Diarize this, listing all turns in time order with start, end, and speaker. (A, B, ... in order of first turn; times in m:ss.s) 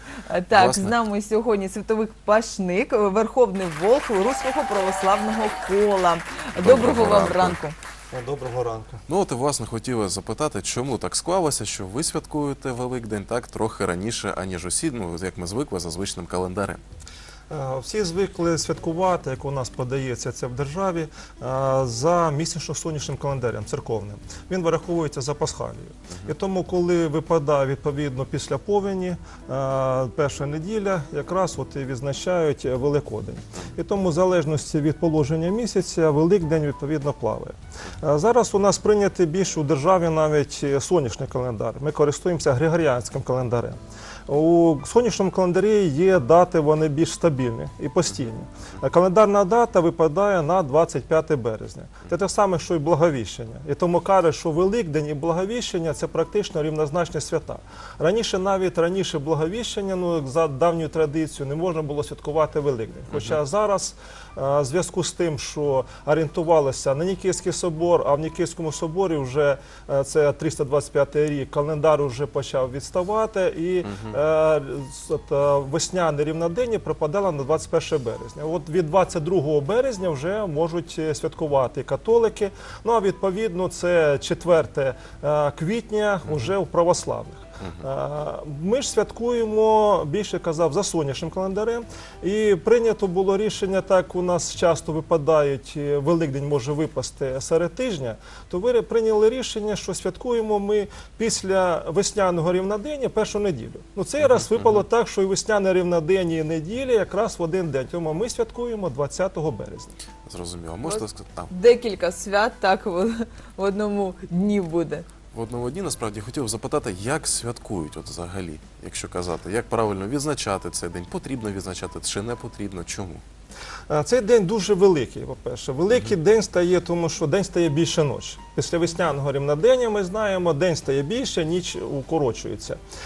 0:00.3-0:07.8 A
0:00.5-0:01.0 B
0:06.6-0:07.6 B
0:08.1-0:09.0 C
0:09.1-0:16.8 B
0:17.5-1:50.0 C
1:13.8-1:14.1 B
1:26.2-1:26.5 B
1:50.3-1:51.5 B
1:50.9-1:55.1 A
1:55.3-2:03.2 B
2:03.9-2:12.8 C